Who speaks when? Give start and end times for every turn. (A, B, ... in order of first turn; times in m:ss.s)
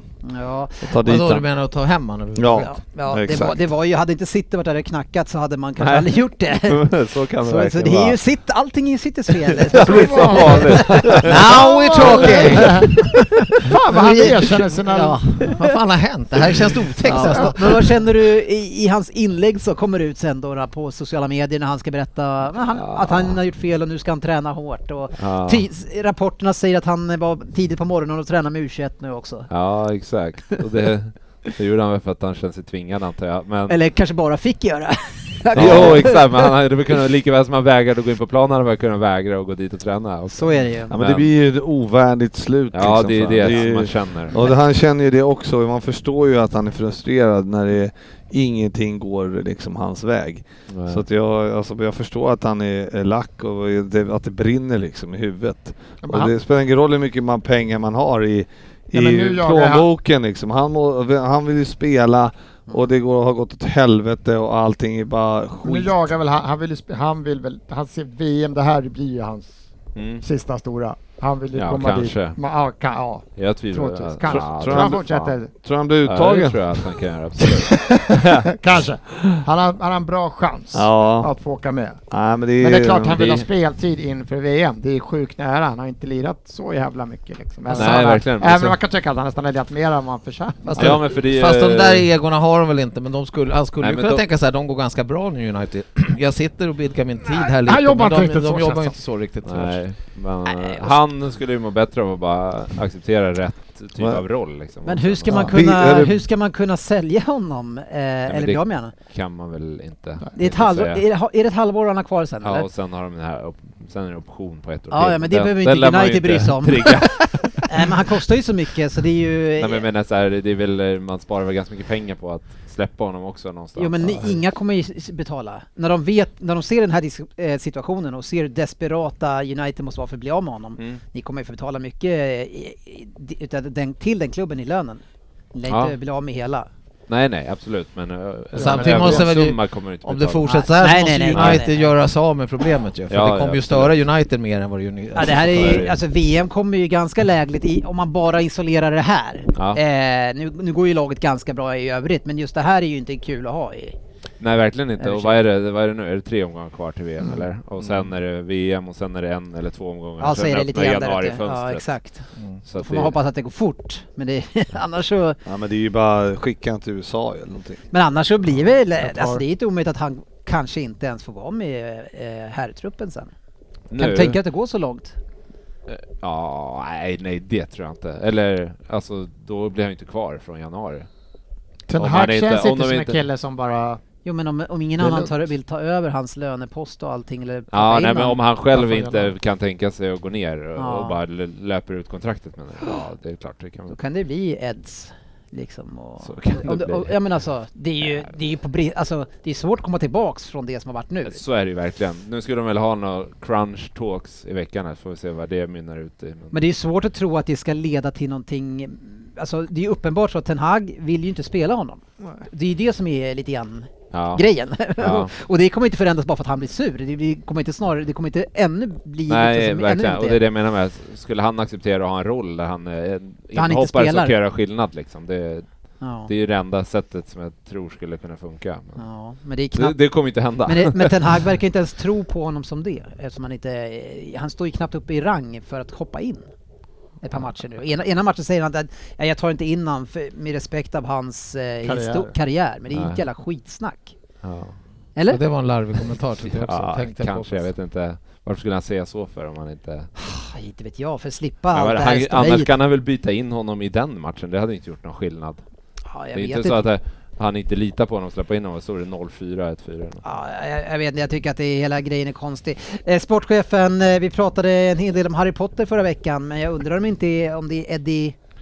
0:00.2-0:00.9 A
0:00.8-0:01.5 B
0:01.0-0:02.8 C
0:02.4-0:03.6 B
0:02.6-0:06.9 A
0:05.8-0:08.2 D
0:07.4-0:13.0 A
0:09.6-0:11.5 D
0:09.7-0:13.0 E
0:11.2-0:17.9 C
0:13.6-0:15.2 E
0:15.4-0:15.7 A
0:17.0-0:29.5 A
0:17.1-0:17.7 E
0:22.7-0:23.4 D
0:25.2-0:25.6 D
0:29.5-0:33.8 D
0:33.7-0:36.5 A
0:35.5-0:36.1 B
0:35.6-0:41.3 D
0:40.3-0:40.9 A
0:40.9-1:06.1 B
0:42.7-0:44.4 D
0:50.7-0:51.0 D
0:56.0-0:56.3 E
0:58.9-0:59.9 E
1:05.6-1:09.6 E
1:10.0-1:10.2 D
1:10.2-1:15.5 E
1:11.6-1:12.4 D
1:13.4-1:15.3 D
1:14.3-1:16.8 B
1:16.0-1:18.5 D
1:17.4-1:22.0 E
1:20.7-1:21.3 B
1:22.1-1:23.4 B
1:22.6-1:31.0 E
1:27.7-1:28.8 D
1:30.6-1:39.8 C
1:30.8-1:32.1 D
1:33.8-1:34.2 D
1:37.5-1:39.0 E
1:39.4-1:45.5 D
1:40.5-1:41.0 A
1:44.8-1:48.9 A
1:45.3-1:46.2 B
1:48.3-1:51.0 D
1:50.4-1:52.7 A
1:52.4-1:57.9 D
1:54.9-1:59.9 A
1:59.6-2:04.4 D
2:03.8-2:15.0 A
2:15.5-2:16.7 A
2:15.7-2:16.0 D
2:17.1-2:20.7 D
2:18.6-2:19.3 E
2:18.6-2:25.9 C
2:20.4-2:21.9 A
2:21.3-2:21.6 D
2:23.1-2:24.0 D
2:25.1-2:34.0 A
2:25.3-2:26.0 D
2:34.4-2:42.0 D
2:35.0-2:35.4 A
2:40.2-2:42.3 A
2:42.6-2:43.2 D
2:42.8-2:45.4 A
2:45.4-2:47.8 B
2:47.9-2:53.3 A
2:49.0-2:49.4 E
2:53.9-2:54.4 D
2:53.9-2:55.2 A
2:55.9-3:01.1 D
3:01.9-3:04.0 E
3:02.0-3:03.2 D
3:04.2-3:08.4 A
3:05.0-3:05.3 E
3:07.7-3:14.0 D
3:08.7-3:09.3 E
3:10.8-3:11.2 A
3:13.9-3:21.4 A
3:16.2-3:17.1 D
3:21.3-3:26.6 D
3:26.5-3:40.4 A
3:34.1-3:35.3 D
3:39.3-3:45.7 D
3:43.6-3:44.4 A
3:46.0-3:46.3 A
3:46.3-3:49.0 D
3:49.0-3:50.0 A
3:49.7-3:51.4 D
3:50.6-3:56.5 A
3:57.2-4:04.2 A
4:01.8-4:02.4 E
4:02.9-4:03.2 D
4:04.4-4:04.8 D
4:05.2-4:05.4 A
4:05.3-4:07.7 C
4:06.4-4:10.1 D
4:10.2-4:12.7 A
4:11.7-4:15.6 D
4:16.1-4:16.8 A
4:16.3-4:20.2 D
4:20.2-4:28.4 A